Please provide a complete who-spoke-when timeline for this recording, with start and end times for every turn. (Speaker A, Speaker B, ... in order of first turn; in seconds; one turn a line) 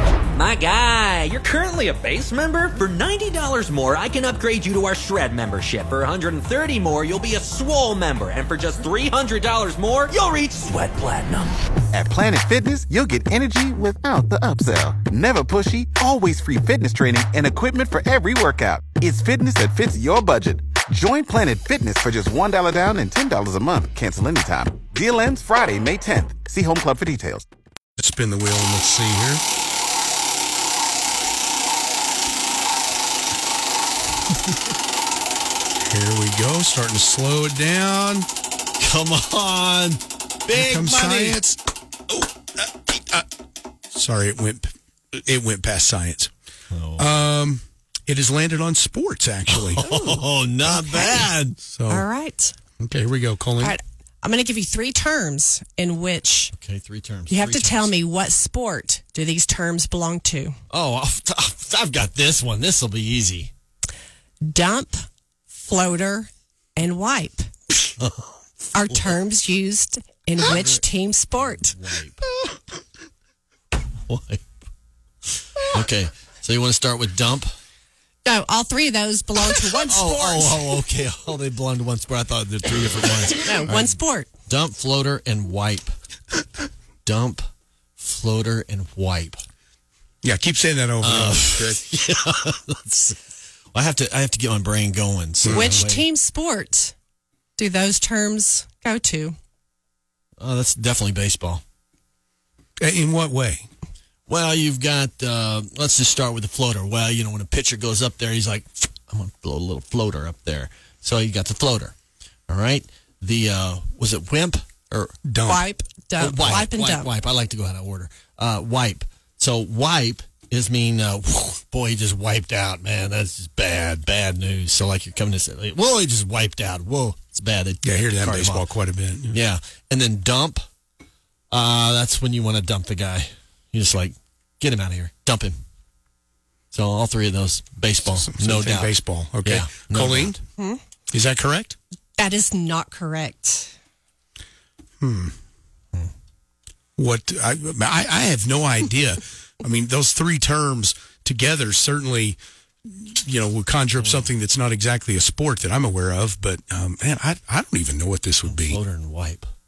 Speaker A: 0.3-11.6
Speaker B: 11.9-27.5
Speaker C: 28.0-29.4
Speaker C: 35.8-38.3
Speaker D: 38.8-41.4
Speaker C: 40.5-43.2
Speaker C: 43.9-46.3
Speaker D: 46.7-47.1
Speaker C: 47.0-49.8
Speaker D: 49.5-51.6
Speaker E: 49.8-51.3
Speaker C: 51.6-52.0
Speaker E: 51.9-52.5
Speaker C: 52.8-53.7
Speaker E: 53.6-56.5
Speaker D: 56.5-57.9
Speaker E: 57.3-60.6
Speaker D: 60.7-63.5
Speaker E: 64.5-67.5
Speaker D: 68.0-68.3
Speaker E: 68.7-71.7
Speaker D: 68.9-69.2
Speaker D: 70.4-72.3
Speaker D: 74.1-74.4
Speaker D: 75.5-77.5
Speaker E: 78.2-80.7
Speaker D: 79.5-83.7
Speaker E: 83.4-84.3
Speaker D: 84.5-85.9
Speaker D: 87.0-87.4
Speaker D: 88.0-89.4
Speaker C: 90.2-91.8
Speaker D: 91.0-93.2
Speaker D: 93.7-96.1
Speaker C: 95.4-95.8
Speaker E: 95.5-96.9
Speaker E: 97.6-99.3
Speaker D: 100.4-101.6
Speaker C: 102.8-103.7
Speaker D: 104.3-111.9
Speaker D: 112.5-115.1
Speaker C: 115.2-115.7
Speaker E: 115.5-117.1
Speaker D: 116.2-128.7
Speaker C: 127.8-129.4
Speaker D: 129.3-130.6
Speaker D: 131.5-135.5
Speaker D: 136.7-140.4
Speaker C: 138.1-140.3
Speaker C: 141.1-141.8
Speaker E: 142.2-143.7
Speaker C: 145.0-145.3
Speaker C: 147.0-158.8
Speaker D: 154.0-154.3
Speaker D: 158.4-159.5